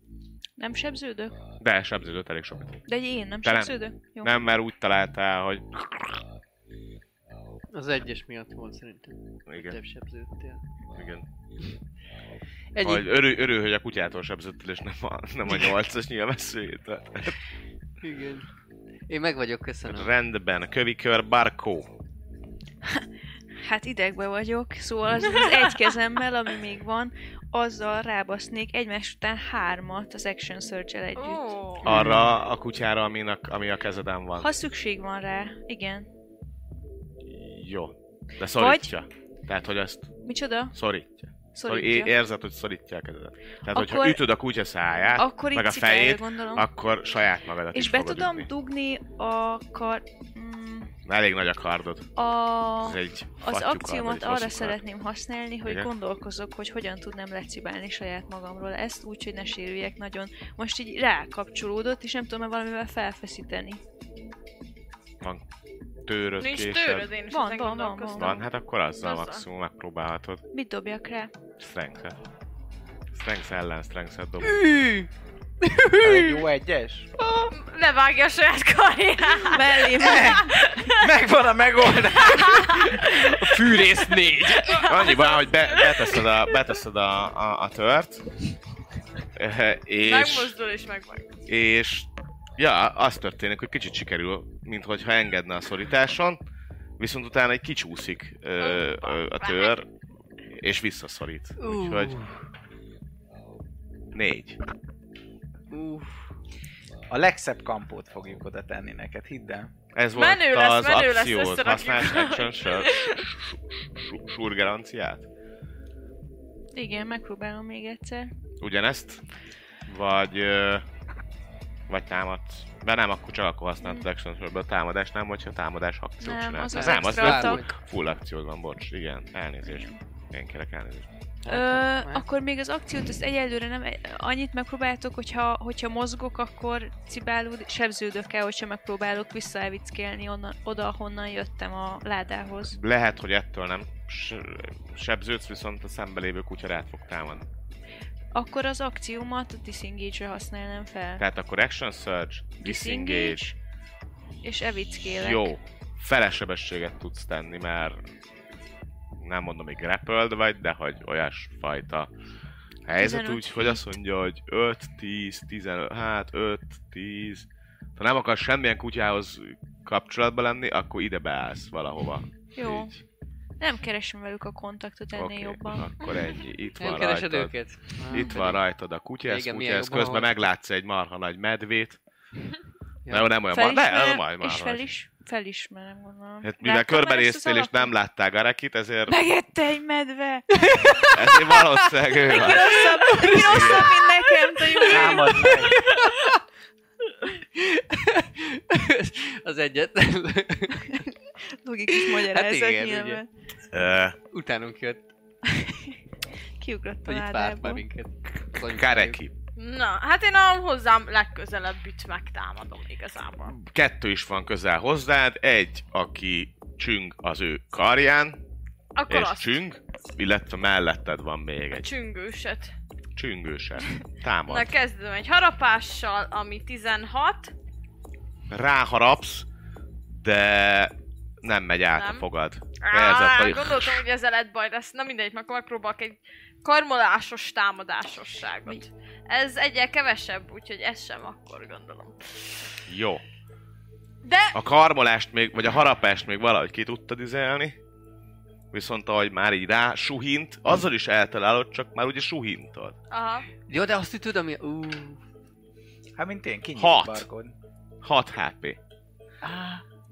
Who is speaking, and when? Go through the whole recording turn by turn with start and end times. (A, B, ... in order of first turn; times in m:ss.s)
0:00.6-0:01.4 A
0:01.6-0:02.8 B
0:02.9-0:04.4 A
0:03.4-0:06.2 B
0:07.7-0:10.6 C
0:09.5-0:09.8 B
0:10.9-0:11.2 B
0:12.7-0:13.1 C
0:12.8-0:17.4 B
0:18.0-0:18.5 C
0:19.1-0:20.1 C
0:19.9-0:21.9 B
0:23.6-0:31.6 A
0:25.3-0:25.9 D
0:31.2-0:31.9 D
0:31.8-0:34.5 B
0:31.8-0:32.3 C
0:34.4-0:36.1 A
0:37.2-0:40.2 B
0:38.6-0:38.9 A
0:40.2-0:40.8 A
0:40.7-0:48.5 B
0:41.6-0:42.1 A
0:43.7-0:44.2 A
0:45.2-0:46.7 A
0:47.7-0:50.9 A
0:51.0-0:52.1 B
0:52.2-1:03.8 A
0:52.8-0:54.8 B
0:55.6-0:55.9 B
1:06.1-1:07.1 B
1:06.4-1:08.5 D
1:07.3-1:08.3 A
1:08.2-1:10.4 B
1:09.0-1:09.5 D
1:10.5-1:11.3 A
1:11.6-1:12.2 B
1:13.1-1:14.7 B
1:14.4-1:15.1 C
1:15.6-1:16.5 C
1:16.0-1:17.1 E
1:17.2-1:17.5 C
1:17.5-1:21.1 D
1:19.4-1:20.6 A
1:20.0-1:24.8 E
1:22.0-1:23.4 D
1:24.6-1:26.4 D
1:24.7-1:28.3 B
1:29.4-1:30.5 B
1:30.0-1:31.4 D
1:31.5-1:36.4 B
1:37.0-1:39.9 B
1:38.6-1:39.8 D
1:40.5-1:42.2 B
1:41.6-1:42.4 C
1:44.1-1:44.6 B
1:45.7-1:46.3 C
1:47.1-1:49.7 E
1:49.9-1:55.3 B
1:50.2-1:53.2 D
1:56.7-1:58.3 A
1:58.6-1:59.2 B
1:59.9-2:00.8 B
2:01.9-2:11.1 B
2:06.2-2:07.6 A
2:06.7-2:07.7 C
2:09.7-2:10.0 A
2:11.4-2:12.3 C
2:11.5-2:22.8 A
2:22.7-2:27.5 B
2:28.3-2:31.2 A
2:31.2-2:33.4 B
2:32.6-2:33.6 A
2:34.4-2:35.5 A
2:35.1-2:38.0 B
2:39.2-2:42.1 B
2:42.8-2:53.0 B
2:42.9-2:43.8 A
2:52.6-2:52.9 A
2:53.6-2:55.8 A
2:55.1-3:02.0 B
2:56.8-2:58.6 C
2:58.1-2:58.4 A
2:59.3-3:00.4 C
3:03.1-3:03.3 C
3:03.1-3:04.8 B
3:03.5-3:07.9 A
3:06.4-3:09.2 B
3:09.1-3:11.1 A
3:10.5-3:11.9 C
3:11.1-3:13.9 B
3:12.2-3:15.5 A
3:12.5-3:16.4 C
3:14.8-3:15.8 E
3:17.2-3:21.0 C
3:21.6-3:23.3 A
3:21.9-3:23.2 C
3:23.7-3:24.2 B
3:24.3-3:25.0 C
3:25.5-3:26.0 A
3:26.6-3:27.8 A
3:27.1-3:29.2 C
3:28.4-3:29.3 B
3:29.6-3:33.6 D
3:33.5-3:38.4 B
3:39.0-3:39.6 D
3:39.1-3:41.9 B
3:41.7-3:42.7 D
3:43.2-3:44.7 B
3:44.5-3:47.5 D
3:48.5-3:49.5 B
3:50.1-3:54.0 B
3:52.0-3:52.3 D
3:52.8-4:02.6 D
4:02.9-4:03.2 B
4:04.2-4:04.6 D
4:04.5-4:07.8 B
4:08.7-4:13.0 B
4:13.1-4:13.5 D
4:13.7-4:15.2 C
4:16.2-4:17.6 E
4:16.8-4:17.3 B
4:18.0-4:18.8 B
4:19.4-4:19.8 E